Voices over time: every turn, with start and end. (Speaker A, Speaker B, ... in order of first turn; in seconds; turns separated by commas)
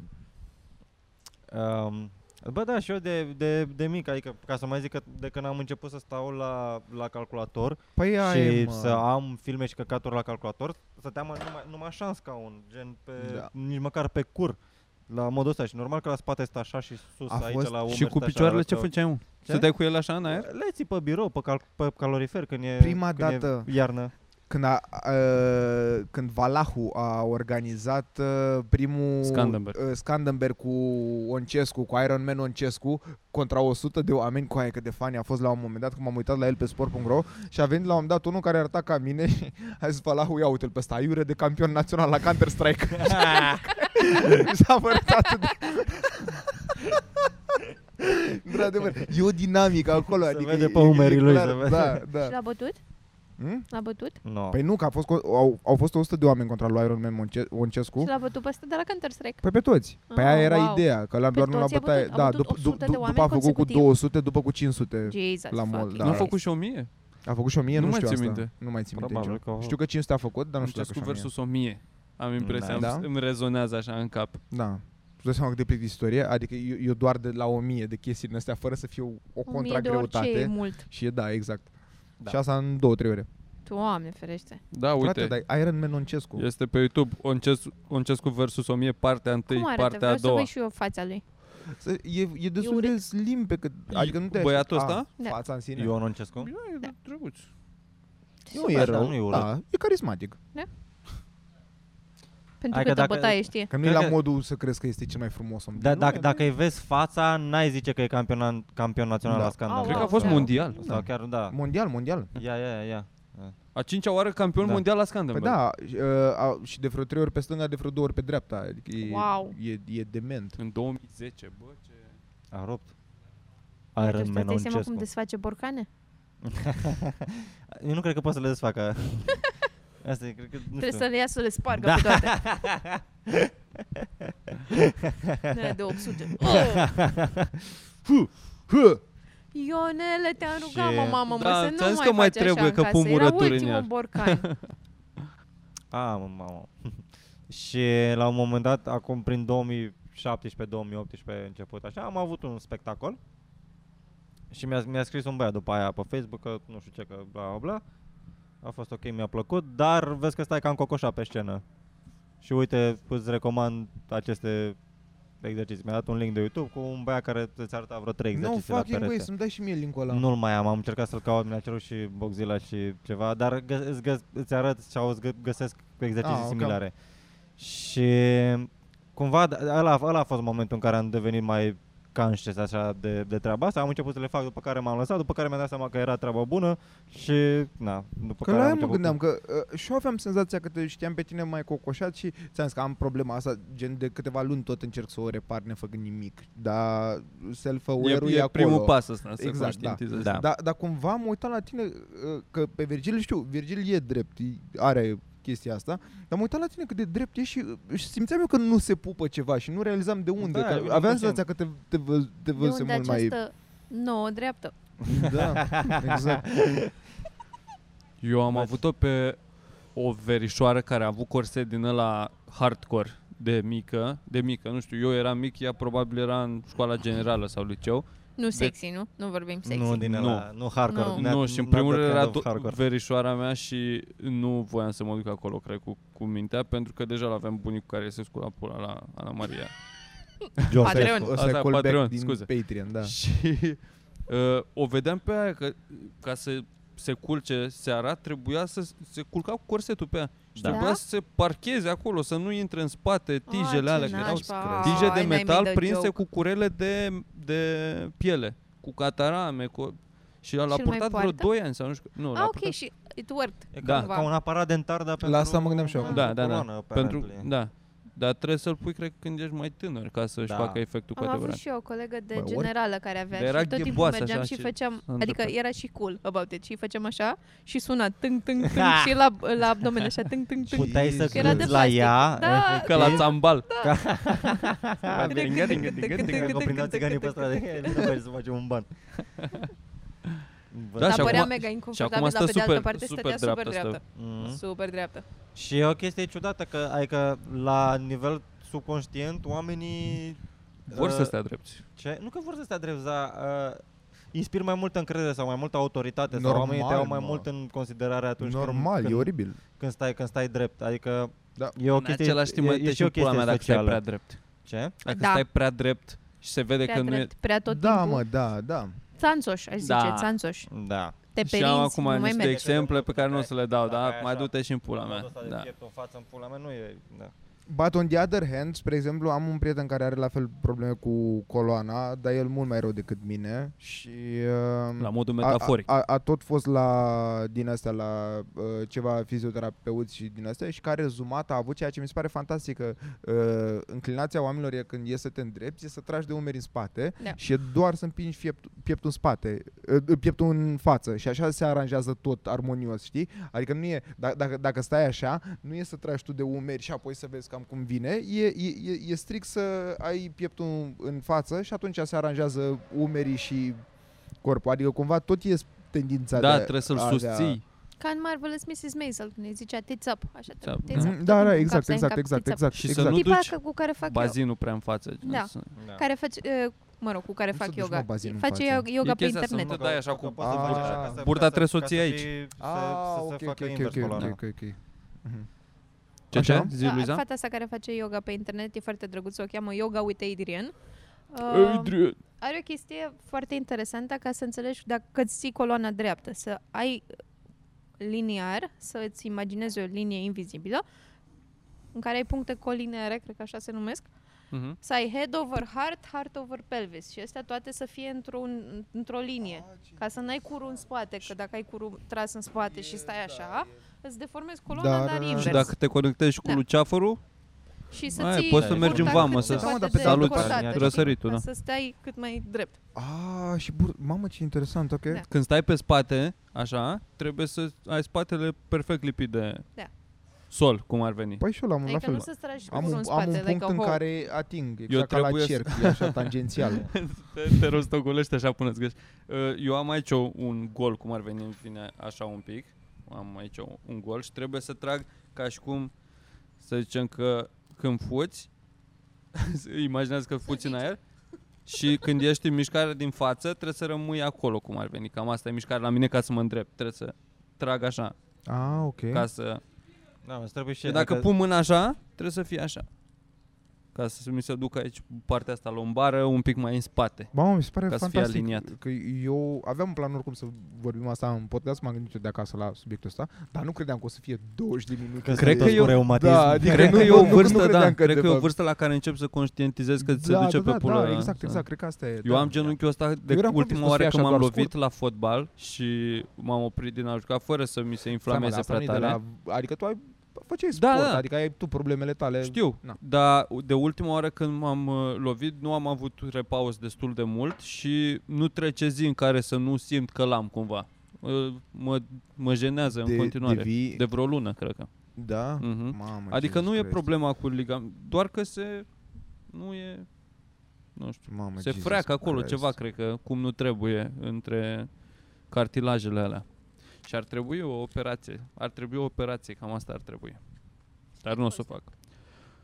Speaker A: 1.5-18.9, Speaker B: 8.0-9.1, Speaker B: 13.2-13.5, Speaker B: 17.3-18.0, Speaker C: 17.9-20.5, Speaker A: 19.4-19.7, Speaker A: 20.3-24.1, Speaker B: 22.8-23.7, Speaker B: 24.5-52.4, Speaker C: 29.2-29.8, Speaker A: 43.0-43.7, Speaker A: 50.2-52.0, Speaker D: 52.2-52.8, Speaker B: 53.4-53.7, Speaker D: 53.7-54.2, Speaker A: 54.2-54.6, Speaker B: 54.5-58.1, Speaker D: 58.0-59.4, Speaker B: 59.4-66.3, Speaker D: 60.1-63.9, Speaker D: 65.1-66.3, Speaker C: 66.0-66.9, Speaker B: 67.2-71.3, Speaker C: 67.7-68.5, Speaker A: 68.9-69.8, Speaker C: 70.6-74.4, Speaker A: 72.4-72.9, Speaker B: 72.7-73.1, Speaker B: 74.5-81.7, Speaker D: 79.5-80.8, Speaker B: 82.3-83.3, Speaker D: 83.7-84.6, Speaker C: 84.7-85.3, Speaker B: 85.0-86.5, Speaker C: 86.4-90.5, Speaker D: 89.5-91.2, Speaker B: 91.7-95.9, Speaker D: 92.6-93.0, Speaker C: 93.9-95.1, Speaker A: 95.8-96.5, Speaker C: 96.4-97.5, Speaker D: 98.5-98.9, Speaker B: 98.5-100.4, Speaker A: 98.5-99.5, Speaker D: 102.6-103.7, Speaker A: 102.7-104.2, Speaker B: 103.7-106.4, Speaker A: 105.8-111.6, Speaker B: 109.3-109.6, Speaker D: 109.7-110.6, Speaker C: 109.8-110.8, Speaker B: 110.8-112.3, Speaker A: 112.4-113.6, Speaker C: 113.8-115.6, Speaker B: 115.3-120.6, Speaker D: 119.0-119.5, Speaker C: 120.6-122.2, Speaker A: 122.5-122.9, Speaker A: 124.0-125.0, Speaker D: 124.0-125.9, Speaker A: 126.4-131.1, Speaker D: 130.8-132.4, Speaker A: 131.8-137.5, Speaker D: 135.5-136.9, Speaker D: 139.5-144.5, Speaker A: 140.5-141.2, Speaker C: 141.3-144.6, Speaker A: 145.9-153.2, Speaker A: 154.5-157.8, Speaker A: 158.6-161.6, Speaker A: 162.4-164.8, Speaker A: 165.4-169.3, Speaker B: 168.3-170.2, Speaker A: 170.1-176.9, Speaker B: 176.2-176.8, Speaker A: 177.6-189.2, Speaker B: 188.4-213.4, Speaker C: 198.0-200.4, Speaker A: 210.4-211.4, Speaker D: 212.6-214.7, Speaker A: 215.1-216.9, Speaker B: 215.1-216.5, Speaker C: 218.2-219.4, Speaker A: 218.5-218.8, Speaker C: 219.9-228.7, Speaker D: 228.4-230.0, Speaker A: 229.7-232.8, Speaker C: 230.0-230.5, Speaker D: 230.9-231.2, Speaker C: 231.1-239.7, Speaker A: 240.7-241.3, Speaker B: 240.8-243.2, Speaker D: 240.8-241.3, Speaker C: 241.3-242.5, Speaker C: 243.0-262.8, Speaker A: 250.6-250.8, Speaker D: 250.7-251.0, Speaker D: 253.5-256.2, Speaker A: 254.2-255.1, Speaker B: 254.5-255.1, Speaker D: 260.7-261.5, Speaker D: 262.4-264.3, Speaker A: 263.7-267.5, Speaker C: 263.8-264.1, Speaker B: 265.2-266.2, Speaker C: 266.1-271.6, Speaker A: 270.5-270.8, Speaker D: 271.2-284.7, Speaker B: 272.3-272.7, Speaker C: 273.3-275.5, Speaker A: 278.7-279.1, Speaker B: 280.7-281.8, Speaker A: 280.7-283.3, Speaker C: 282.9-283.7, Speaker A: 283.8-288.9, Speaker C: 285.1-286.9, Speaker D: 285.3-288.1, Speaker C: 289.4-289.7, Speaker A: 290.7-291.5, Speaker C: 291.0-294.0, Speaker D: 291.0-295.2, Speaker A: 294.1-294.6, Speaker A: 295.6-301.3, Speaker C: 300.9-301.8, Speaker A: 302.0-314.0, Speaker B: 306.3-307.5, Speaker B: 308.4-309.6, Speaker C: 311.9-314.4, Speaker A: 314.6-315.0, Speaker C: 315.0-317.3, Speaker D: 315.1-315.4, Speaker D: 316.9-318.2, Speaker B: 317.7-319.0, Speaker D: 319.2-320.7, Speaker C: 319.8-320.3, Speaker A: 320.7-321.2, Speaker D: 321.3-322.6, Speaker C: 321.4-325.7, Speaker A: 322.2-327.3, Speaker B: 327.7-363.8, Speaker C: 335.0-335.9, Speaker B: 364.4-367.6, Speaker C: 366.4-367.6, Speaker D: 368.0-374.4, Speaker C: 370.6-371.1, Speaker B: 370.9-373.3, Speaker C: 372.7-375.7, Speaker D: 375.2-379.8, Speaker A: 375.8-376.0, Speaker B: 377.5-378.9, Speaker C: 379.0-382.3, Speaker A: 379.5-384.4, Speaker B: 380.4-381.2, Speaker B: 382.6-385.5, Speaker C: 386.3-387.2, Speaker B: 386.3-386.7, Speaker D: 386.8-390.7, Speaker D: 391.3-397.1, Speaker C: 391.5-392.2, Speaker D: 398.0-400.8, Speaker D: 401.9-404.1, Speaker C: 404.5-404.8, Speaker D: 404.8-415.7, Speaker B: 409.4-410.4, Speaker B: 412.7-413.7, Speaker B: 414.7-415.7, Speaker C: 415.4-417.2, Speaker D: 417.9-422.8, Speaker C: 418.1-421.4, Speaker A: 418.4-421.1, Speaker B: 419.1-420.7, Speaker B: 422.9-425.2, Speaker C: 425.3-429.7, Speaker C: 430.5-431.4, Speaker B: 431.4-436.9, Speaker D: 431.9-434.0, Speaker C: 434.9-445.9, Speaker C: 446.6-448.5, Speaker C: 449.3-451.0, Speaker D: 450.5-450.9, Speaker C: 451.7-458.1, Speaker B: 458.5-459.3, Speaker C: 459.1-459.6, Speaker A: 460.2-461.3, Speaker C: 460.9-462.9, Speaker C: 463.9-467.3, Speaker B: 467.3-478.5, Speaker C: 467.9-468.7, Speaker A: 475.2-477.6, Speaker C: 475.4-476.0, Speaker C: 476.6-481.7, Speaker B: 480.0-482.7, Speaker C: 482.2-489.2, Speaker B: 483.3-484.7, Speaker B: 488.3-493.0, Speaker C: 490.7-491.2, Speaker C: 492.4-504.9, Speaker B: 502.9-504.0, Speaker B: 505.2-507.0, Speaker C: 505.6-508.9, Speaker C: 509.5-510.1, Speaker C: 511.0-514.9, Speaker B: 511.3-512.8, Speaker C: 515.5-516.5, Speaker C: 517.0-520.4, Speaker C: 521.2-521.9, Speaker D: 521.3-521.6